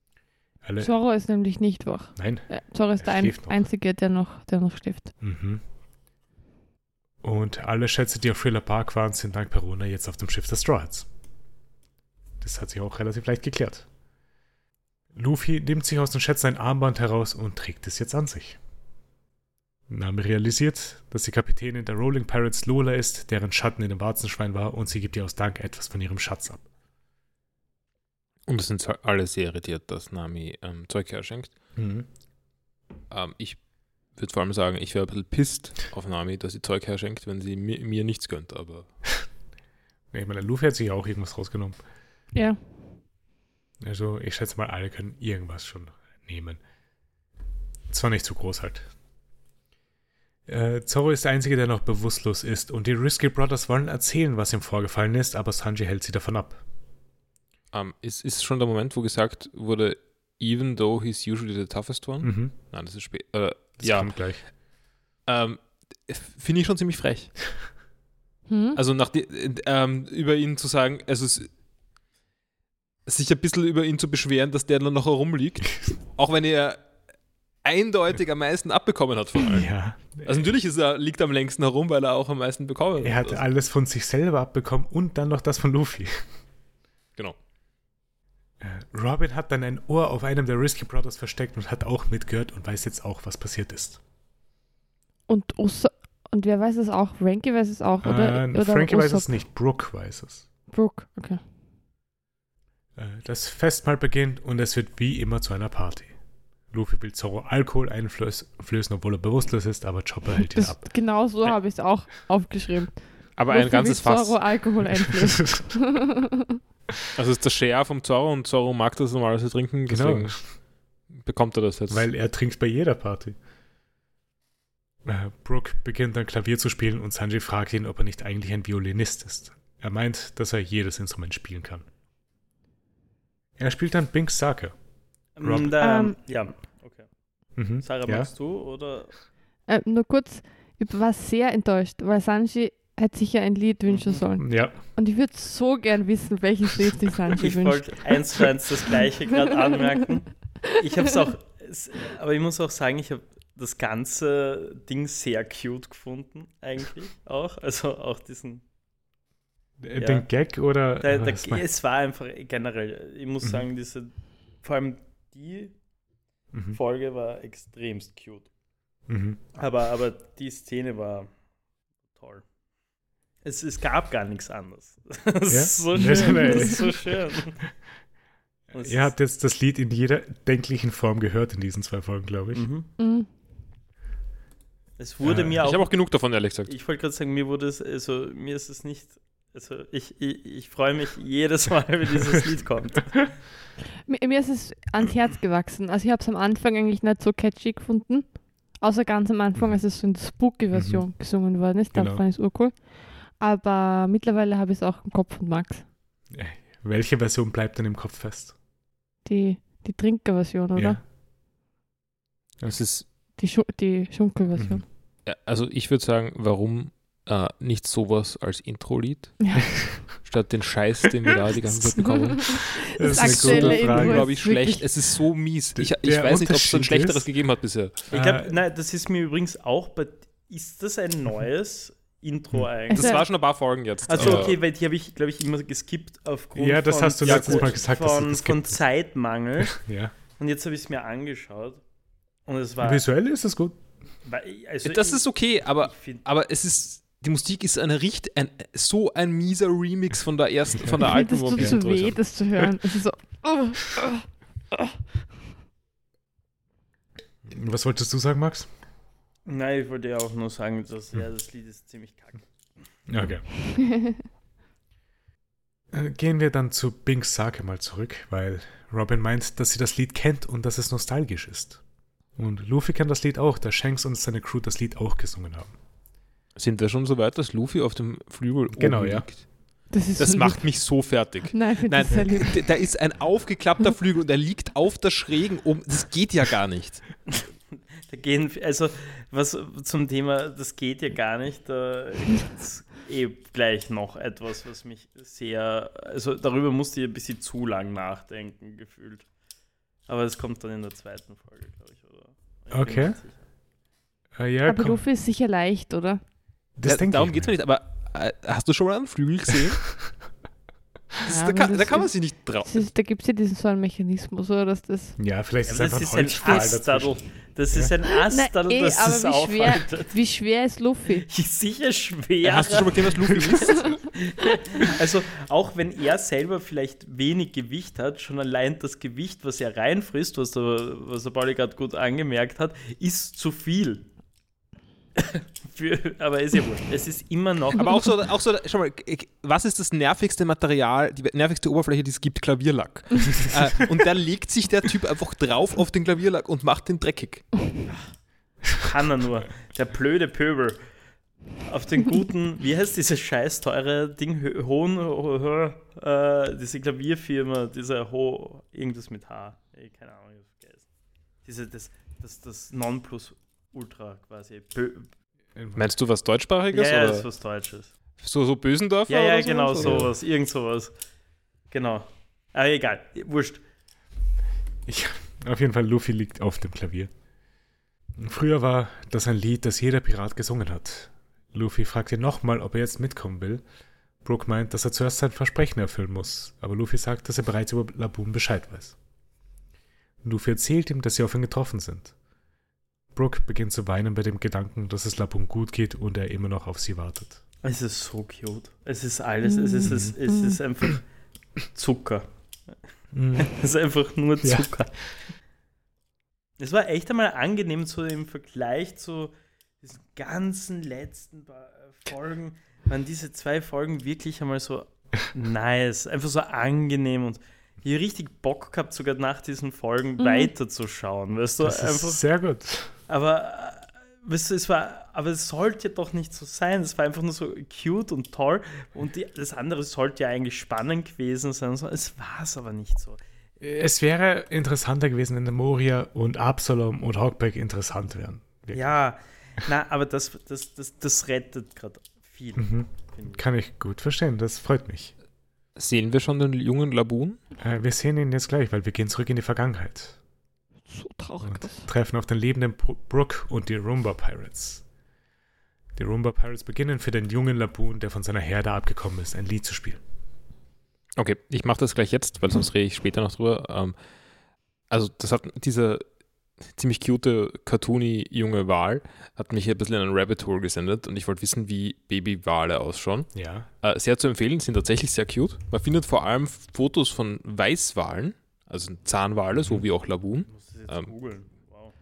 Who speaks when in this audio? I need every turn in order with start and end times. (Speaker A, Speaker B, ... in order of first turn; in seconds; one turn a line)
Speaker A: 0.6-0.9
Speaker B: 0.8-5.1
Speaker A: 2.2-2.5
Speaker A: 3.0-3.6
Speaker A: 5.2-5.6
Speaker A: 7.2-11.1
Speaker A: 12.4-13.9
Speaker A: 15.1-18.6
Speaker A: 19.9-26.6
Speaker C: 28.5-31.5
Speaker A: 31.8-32.1
Speaker C: 33.1-38.9
Speaker A: 40.1-41.8
Speaker A: 43.8-46.6
Speaker A: 47.9-48.9
Speaker A: 50.5-56.6
Speaker C: 57.7-64.2
Speaker A: 62.2-62.5
Speaker A: 63.8-64.4
Speaker C: 65.3-67.5
Speaker B: 68.5-68.8
Speaker C: 68.8-71.5
Speaker C: 73.1-76.8
Speaker C: 77.6-79.7
Speaker A: 79.5-80.5
Speaker C: 80.2-83.4
Speaker A: 83.0-86.2
Speaker A: 88.6-94.0
Speaker B: 95.3-99.3
Speaker A: 98.0-100.5
Speaker B: 100.7-101.4
Speaker A: 103.0-106.2
Speaker A: 106.7-110.9
Speaker B: 110.5-116.6
Speaker C: 113.4-114.5
Speaker A: 115.1-115.7
Speaker C: 117.2-120.5
Speaker A: 119.9-120.4
Speaker C: 121.1-122.1
Speaker A: 121.9-123.4
Speaker A: 125.0-131.9
Speaker A: 133.6-134.7
Speaker D: 135.4-137.1
Speaker A: 135.4-135.7
Speaker B: 135.8-136.2
Speaker A: 137.6-138.3
Speaker D: 137.8-139.1
Speaker B: 139.7-148.2
Speaker D: 143.9-144.2
Speaker A: 144.4-144.8
Speaker D: 147.4-158.6
Speaker A: 159.8-161.6
Speaker D: 160.0-160.3
Speaker D: 161.0-165.7
Speaker A: 166.5-166.8
Speaker D: 166.7-168.5
Speaker A: 169.1-169.4
Speaker D: 169.6-171.3
Speaker D: 172.2-172.4
Speaker D: 173.4-177.6
Speaker A: 175.5-177.1
Speaker B: 176.0-176.8
Speaker D: 178.7-179.1
Speaker A: 178.8-182.7
Speaker D: 182.5-182.9
Speaker B: 183.0-183.3
Speaker D: 185.0-186.1
Speaker A: 185.2-185.5
Speaker C: 185.6-186.7
Speaker D: 186.7-193.4
Speaker B: 194.1-205.8
Speaker A: 200.7-201.1
Speaker A: 201.9-202.2
Speaker A: 206.3-208.6
Speaker B: 209.3-211.0
Speaker A: 210.8-211.0
Speaker C: 212.7-213.1
Speaker B: 213.4-214.8
Speaker A: 214.6-214.8
Speaker C: 215.3-228.0
Speaker A: 221.7-224.3
Speaker B: 222.2-224.9
Speaker A: 225.8-227.3
Speaker D: 228.1-233.2
Speaker A: 228.1-228.5
Speaker B: 232.9-233.2
Speaker C: 232.9-234.6
Speaker D: 234.1-239.8
Speaker A: 234.2-234.5
Speaker A: 236.6-238.8
Speaker C: 237.2-237.7
Speaker A: 239.6-240.1
Speaker D: 240.4-241.8
Speaker D: 242.5-243.0
Speaker A: 242.8-243.8
Speaker D: 244.2-246.2
Speaker C: 244.8-252.2
Speaker B: 251.0-254.2
Speaker A: 257.5-258.7
Speaker D: 259.4-262.4
Speaker A: 263.1-263.4
Speaker B: 263.8-264.2
Speaker A: 265.9-271.8
Speaker A: 272.4-275.7
Speaker C: 276.6-279.4
Speaker A: 278.7-279.3
Speaker B: 279.9-280.8
Speaker C: 280.2-287.1
Speaker B: 281.5-282.6
Speaker D: 287.3-299.2
Speaker D: 300.1-303.4
Speaker A: 302.7-303.2
Speaker A: 304.4-305.0
Speaker B: 304.7-306.2
Speaker A: 306.8-307.6
Speaker C: 306.8-309.8
Speaker C: 311.2-312.8
Speaker B: 311.3-315.2
Speaker A: 315.2-317.1
Speaker D: 315.7-320.1
Speaker B: 318.3-321.3
Speaker D: 321.2-334.1
Speaker C: 322.4-324.1
Speaker D: 335.2-338.0
Speaker C: 337.8-347.5
Speaker D: 348.7-350.8
Speaker D: 351.7-360.9
Speaker D: 361.4-365.1
Speaker A: 365.6-365.8
Speaker C: 365.8-367.3
Speaker D: 366.7-367.9
Speaker C: 368.2-370.1
Speaker D: 369.1-370.9
Speaker A: 369.8-370.1
Speaker D: 371.7-373.6
Speaker A: 374.9-377.1
Speaker A: 378.2-383.6
Speaker A: 384.2-389.0
Speaker A: 390.2-392.1
Speaker A: 393.1-397.4
Speaker D: 397.6-401.1
Speaker B: 399.5-400.6
Speaker D: 401.7-402.3
Speaker A: 403.1-403.5
Speaker D: 403.4-404.9
Speaker A: 404.4-404.7
Speaker D: 406.6-422.2
Speaker B: 420.2-420.5
Speaker A: 421.6-422.9
Speaker D: 423.1-433.2
Speaker A: 433.6-438.8
Speaker D: 438.7-443.4
Speaker A: 442.6-445.1
Speaker C: 445.8-447.4
Speaker A: 447.6-450.2
Speaker B: 450.9-451.9
Speaker A: 451.4-454.8
Speaker A: 456.0-460.0
Speaker C: 461.2-464.0
Speaker C: 464.9-466.1
Speaker C: 466.6-481.1
Speaker A: 473.3-473.7
Speaker A: 479.6-479.8
Speaker D: 480.5-481.9